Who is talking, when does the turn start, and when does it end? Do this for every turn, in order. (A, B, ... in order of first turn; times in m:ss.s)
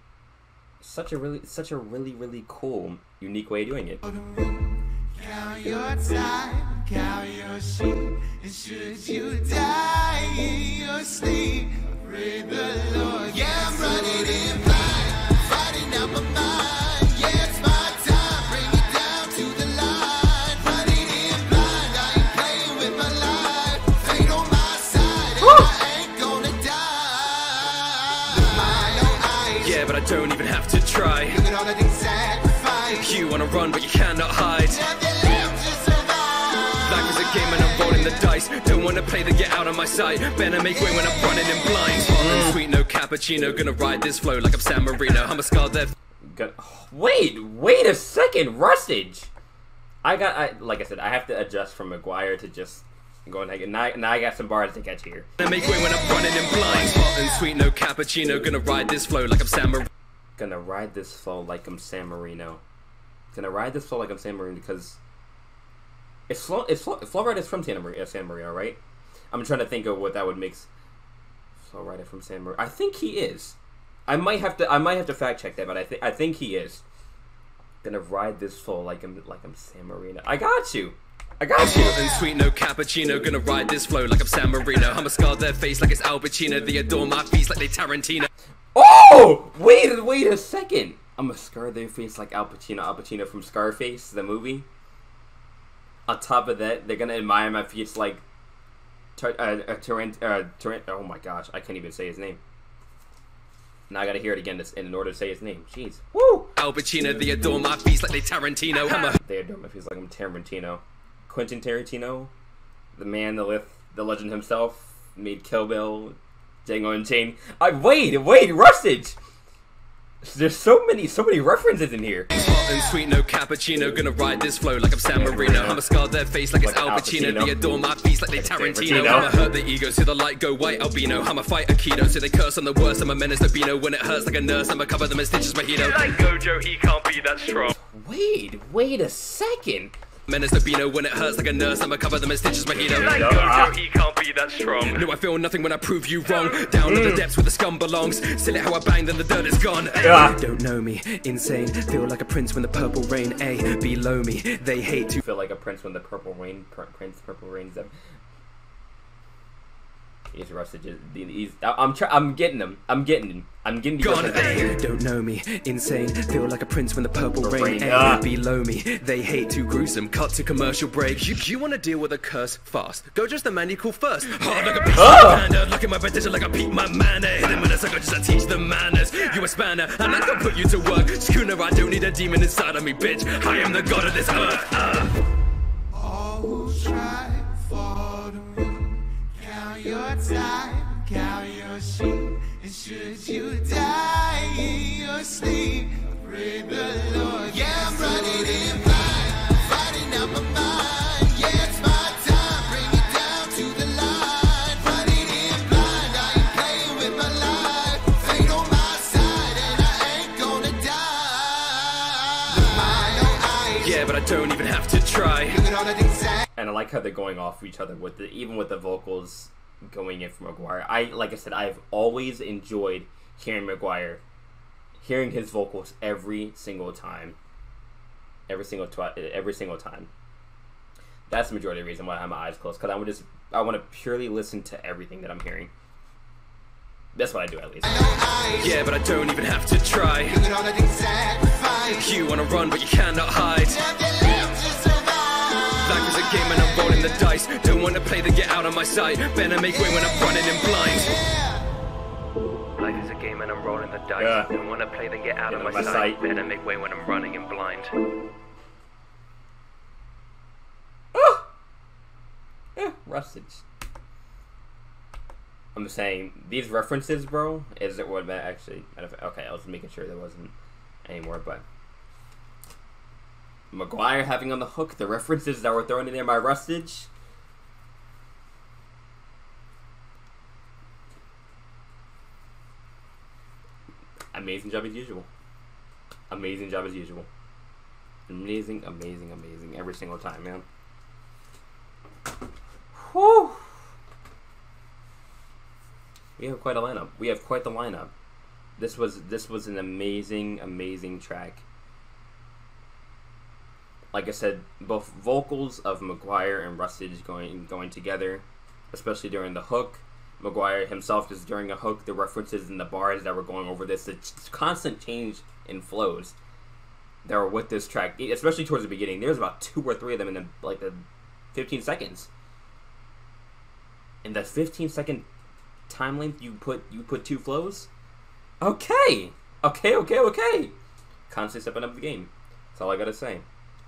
0:00.8-0:04.1 A
0:05.1-0:29.4 B
0:25.4-0:25.8 A
0:29.5-0:31.6 C
0:31.6-0:32.8 B
0:32.8-0:35.0 C
0:35.0-0:36.7 B
0:36.8-0:45.9 C
0:42.2-0:42.6 A
0:46.2-0:49.3 A
0:50.0-0:55.3 A
0:55.4-0:59.9 C
1:00.4-1:02.6 A
1:03.3-1:05.0 A
1:06.3-1:08.8 A
1:09.3-1:10.7 A
1:11.6-1:16.8 A
1:17.8-1:22.0 A
1:21.6-1:28.3 C
1:28.8-1:34.7 A
1:36.1-1:38.2 A
1:39.2-1:42.4 A
1:43.9-1:46.5 A
1:46.6-1:49.2 C
1:49.2-1:52.3 A
1:53.0-1:59.2 A
2:00.2-2:02.3 A
2:02.3-2:17.7 C
2:05.1-2:05.8 A
2:06.6-2:07.6 A
2:08.3-2:09.3 A
2:17.8-2:19.9 A
2:20.3-2:35.2 C
2:22.7-2:23.8 A
2:26.8-2:27.2 A
2:30.0-2:30.4 A
2:35.2-2:37.9 A
2:40.3-2:44.8 A
2:44.0-3:05.1 C
2:47.4-2:48.2 A
2:55.0-2:55.4 A
3:06.0-3:33.6 B
3:33.6-3:35.7 C
3:36.6-3:44.2 A
3:45.0-3:47.4 A
3:48.5-3:50.1 A
3:51.3-3:55.7 A
3:57.1-3:58.1 A
3:58.5-4:00.6 C
4:00.6-4:01.8 B
4:01.8-4:04.0 C
4:04.0-4:05.6 B
4:05.7-4:11.2 C
4:12.8-4:17.9 C
4:14.2-4:14.5 A
4:15.5-4:16.2 A
4:21.1-4:21.5 A
4:22.8-4:23.6 A
4:25.8-4:30.5 A
4:31.0-4:31.6 A
4:33.7-4:37.1 A
4:44.3-4:45.3 A
4:46.3-4:47.3 A
4:48.3-4:50.6 A
4:52.9-4:53.7 A
4:56.4-4:58.1 A
4:58.8-5:01.6 A
5:04.1-5:16.4 A
5:17.2-5:22.3 A
5:24.2-5:25.3 A
5:25.9-5:27.9 A
5:28.6-5:30.7 A
5:31.3-5:33.4 A